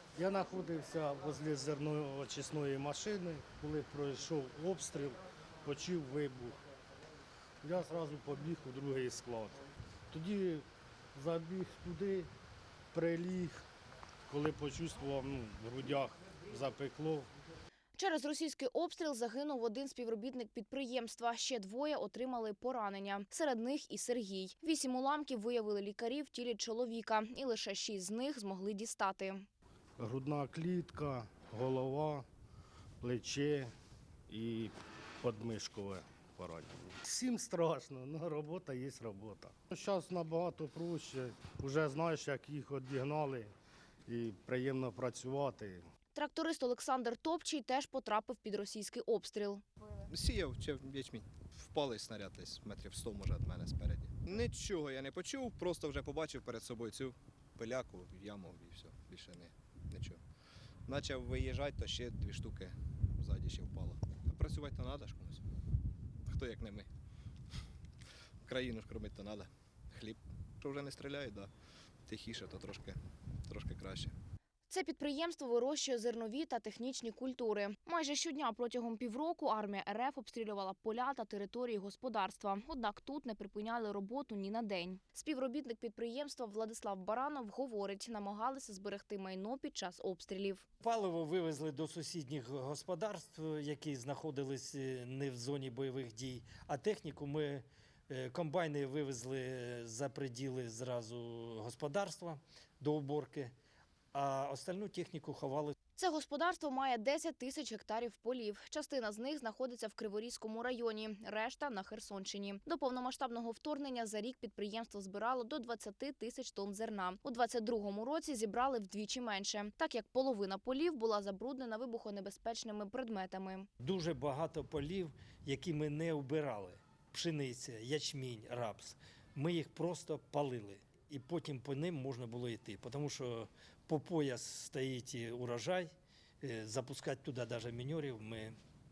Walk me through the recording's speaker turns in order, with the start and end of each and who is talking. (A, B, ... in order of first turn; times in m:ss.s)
0:00.2-0:06.6 A
0:07.6-0:12.3 A
0:12.9-0:13.7 A
0:14.3-0:17.3 A
0:18.0-0:29.5 B
0:30.0-0:32.3 A
0:33.0-0:33.7 A
0:34.3-0:43.5 A
0:44.1-0:45.8 A
0:46.2-0:49.6 B
0:50.1-1:00.2 C
1:00.9-1:05.4 C
1:06.3-1:06.9 C
1:08.4-1:11.5 C
1:12.1-1:14.1 C
1:14.7-1:30.6 B
1:30.8-1:43.5 D
1:44.1-1:45.7 D
1:46.0-2:03.7 B
2:03.8-2:15.9 D
2:16.4-2:18.6 D